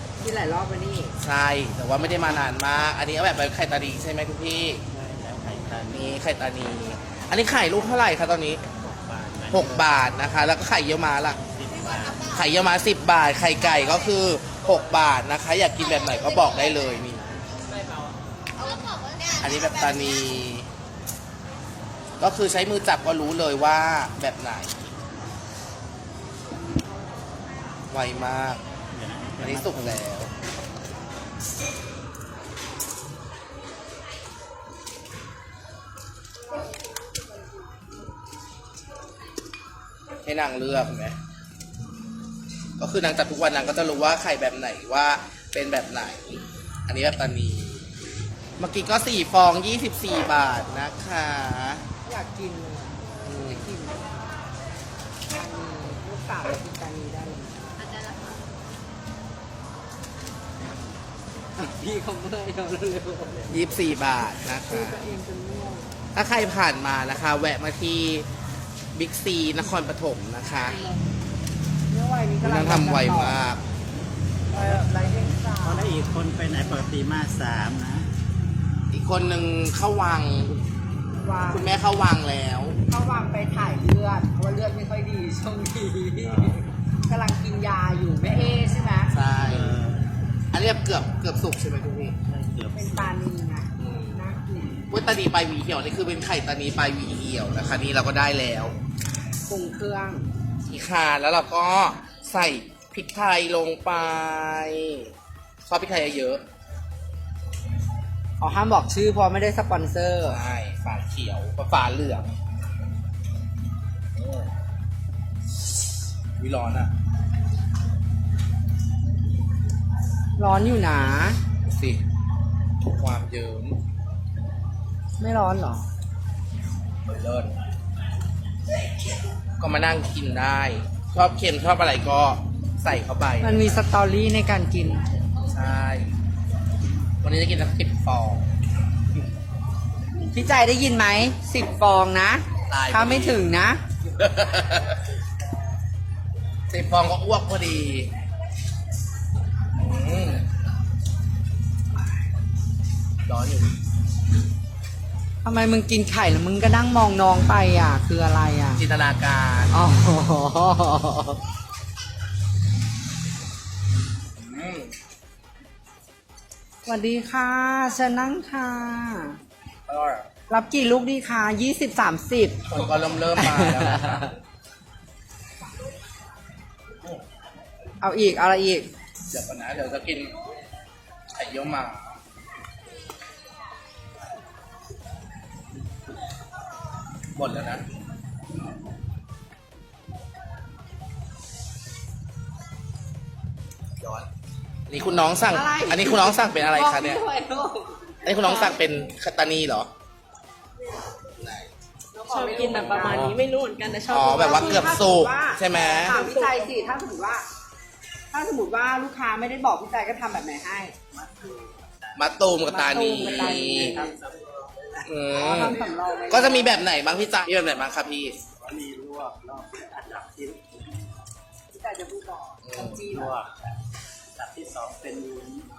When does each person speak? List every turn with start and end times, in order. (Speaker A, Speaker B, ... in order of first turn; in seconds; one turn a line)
Speaker A: 0.2-1.1
Speaker B: 1.2-4.8
Speaker C: 4.9-6.2
Speaker B: 5.9-8.6
Speaker C: 8.8-9.8
Speaker B: 9.5-11.4
Speaker C: 11.5-12.4
Speaker B: 12.3-17.4
Speaker B: 19.2-20.7
Speaker B: 22.2-24.9
Speaker B: 27.9-28.6
Speaker C: 28.9-30.0
Speaker B: 29.4-30.3
Speaker B: 40.2-41.2
Speaker B: 42.8-47.9
Speaker B: 48.6-51.9
Speaker A: 52.0-54.1
Speaker B: 53.2-53.7
Speaker A: 55.3-57.9
Speaker A: 61.6-63.6
Speaker B: 63.5-65.0
Speaker A: 64.7-65.9
Speaker B: 66.2-68.3
Speaker B: 68.9-70.9
Speaker A: 71.9-73.4
Speaker B: 72.4-73.6
Speaker A: 74.5-76.0
Speaker C: 75.6-78.1
Speaker B: 78.9-80.6
Speaker A: 81.2-81.7
Speaker B: 81.5-82.8
Speaker A: 82.9-89.1
Speaker C: 86.2-86.6
Speaker B: 89.1-89.8
Speaker C: 89.3-90.1
Speaker B: 90.5-92.2
Speaker C: 92.3-93.2
Speaker A: 92.7-94.8
Speaker B: 93.8-94.2
Speaker B: 94.9-98.8
Speaker A: 99.5-100.3
Speaker B: 100.7-105.1
Speaker B: 105.7-106.4
Speaker A: 108.4-110.4
Speaker B: 110.2-112.4
Speaker B: 114.2-114.5
Speaker B: 116.4-116.9
Speaker A: 120.4-121.4
Speaker B: 121.7-122.0
Speaker B: 122.8-123.8
Speaker A: 125.2-125.8
Speaker B: 127.1-127.5
Speaker B: 129.6-133.8
Speaker A: 133.4-135.1
Speaker B: 135.5-136.1
Speaker B: 137.2-138.5
Speaker A: 140.3-143.8
Speaker B: 142.7-143.4
Speaker B: 144.1-145.0
Speaker B: 146.7-148.1
Speaker B: 149.8-150.4
Speaker B: 153.3-153.8
Speaker A: 155.4-158.8
Speaker B: 158.8-159.7
Speaker A: 159.7-161.4
Speaker B: 164.4-164.9
Speaker A: 166.8-169.4
Speaker B: 169.9-170.3
Speaker A: 170.5-172.7
Speaker B: 172.7-174.3
Speaker A: 173.4-174.2
Speaker A: 178.0-178.9
Speaker B: 179.3-180.3
Speaker B: 181.3-182.2
Speaker B: 187.3-187.8
Speaker B: 194.0-194.3
Speaker B: 194.9-197.2
Speaker A: 195.5-198.8
Speaker B: 198.2-199.9
Speaker B: 201.4-201.7
Speaker A: 202.1-203.3
Speaker D: 202.3-205.0
Speaker B: 202.9-203.3
Speaker B: 204.1-206.2
Speaker A: 204.3-207.5
Speaker D: 206.1-206.7
Speaker A: 208.3-210.9
Speaker C: 211.1-212.3
Speaker B: 212.2-214.0
Speaker A: 212.7-214.1
Speaker C: 213.1-215.1
Speaker B: 215.1-218.4
Speaker A: 215.3-216.8
Speaker C: 218.5-221.2
Speaker A: 221.7-223.4
Speaker B: 222.6-223.1
Speaker C: 223.1-223.8
Speaker C: 224.3-225.7